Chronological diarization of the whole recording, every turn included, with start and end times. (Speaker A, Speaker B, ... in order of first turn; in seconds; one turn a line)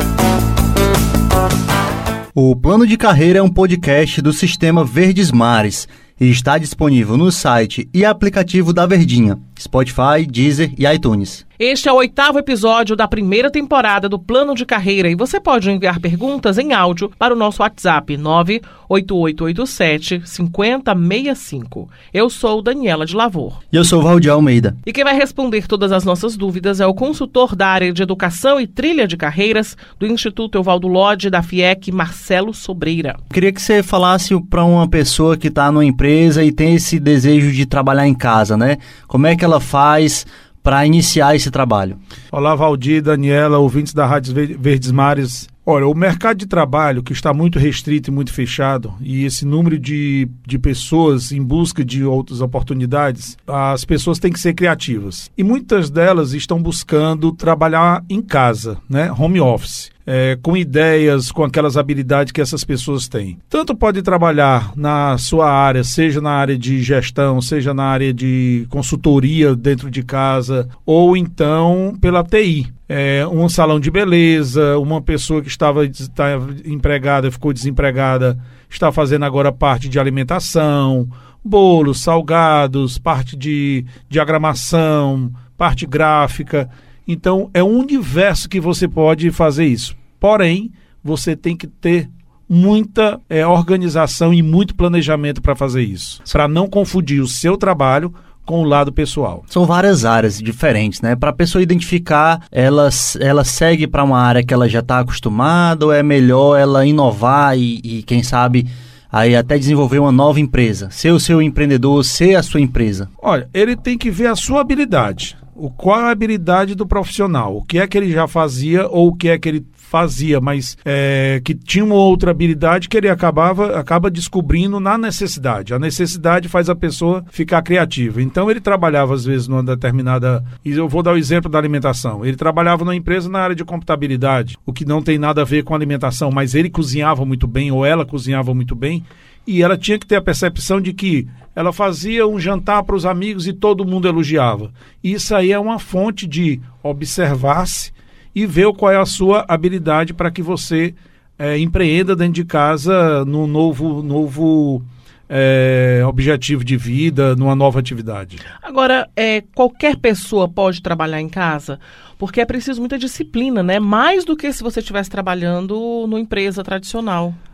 Speaker A: 2.4-11.4
Speaker B: 11.6-23.6
Speaker A: 23.7-24.8
Speaker B: 24.9-33.2
Speaker A: 33.3-42.0
Speaker C: 42.3-99.4
Speaker A: 99.5-113.1
Speaker C: 113.2-158.4
Speaker B: 158.6-167.4